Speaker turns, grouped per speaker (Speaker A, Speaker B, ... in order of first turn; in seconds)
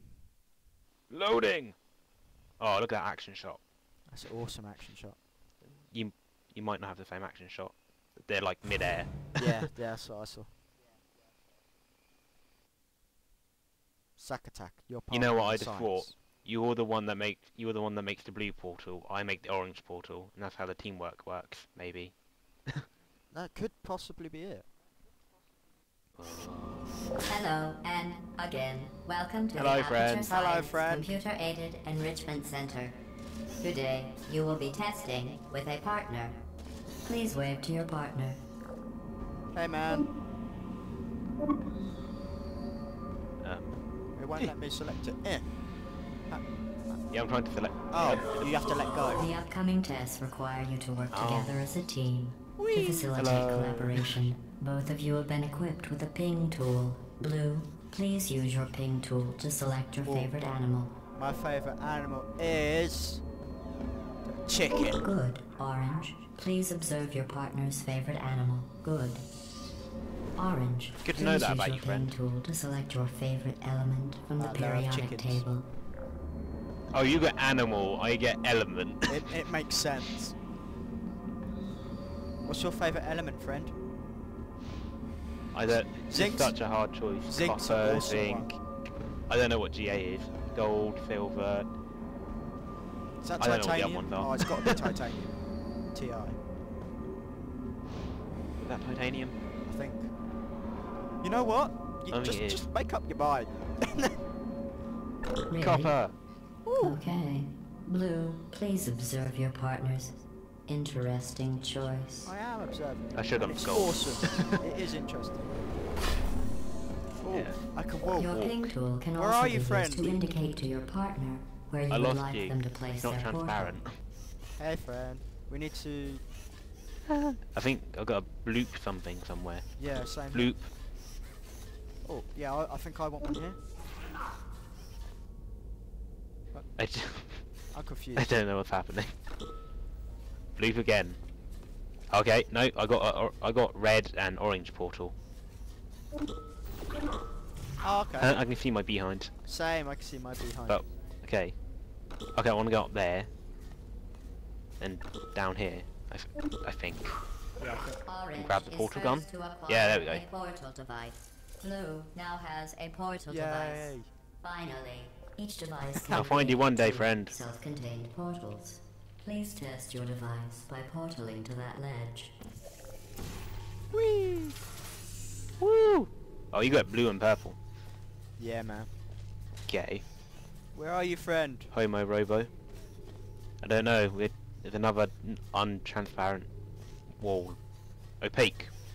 Speaker A: 1.1-1.8, 2.6-3.6, 5.9-9.6, 15.1-22.8, 26.2-27.1, 29.5-30.3, 43.4-43.8, 47.1-48.5, 51.1-51.6, 53.1-54.2, 71.0-72.1, 76.9-79.4, 85.5-88.6, 89.3-91.7, 93.4-94.8, 98.6-99.4, 102.1-102.7, 105.6-106.2, 113.1-114.6, 117.3-117.6, 118.3-118.6, 121.9-123.9, 127.1-129.8, 130.3-130.7, 136.8-137.4, 138.2-139.2, 140.6-141.2, 142.1-145.2, 148.2-149.3, 150.7-151.6, 152.3-153.3, 154.8-157.2, 158.3-160.2, 166.1-167.4, 175.6-177.6, 179.7-180.1, 181.7-182.5, 183.6-186.5, 187.2-187.6, 188.2-188.7
Speaker B: 4.1-5.2, 9.4-10.5, 14.2-16.2, 23.3-24.7, 30.3-31.2, 39.5-40.1, 44.1-45.6, 46.3-47.0, 47.9-49.3, 52.6-53.1, 60.0-60.3, 61.1-63.2, 64.2-65.0, 74.4-75.5, 79.1-80.4, 82.4-83.8, 86.1-86.7, 87.2-88.5, 93.2-95.4, 95.9-96.4, 99.7-100.1, 101.2-104.2, 106.7-107.0, 112.2-115.6, 117.1-118.4, 119.1-120.2, 124.6-126.2, 129.8-130.6, 132.0-133.6, 137.7-138.3, 147.8-148.4, 149.5-150.8, 157.6-158.0, 163.3-164.1, 173.9-174.6, 178.4-178.9, 180.7-181.7
Speaker C: 27.3-33.0, 33.6-36.4, 37.0-38.4, 49.2-60.9, 64.9-69.3, 70.3-75.7, 105.5-106.0, 106.8-112.3, 118.2-123.8, 158.0-172.3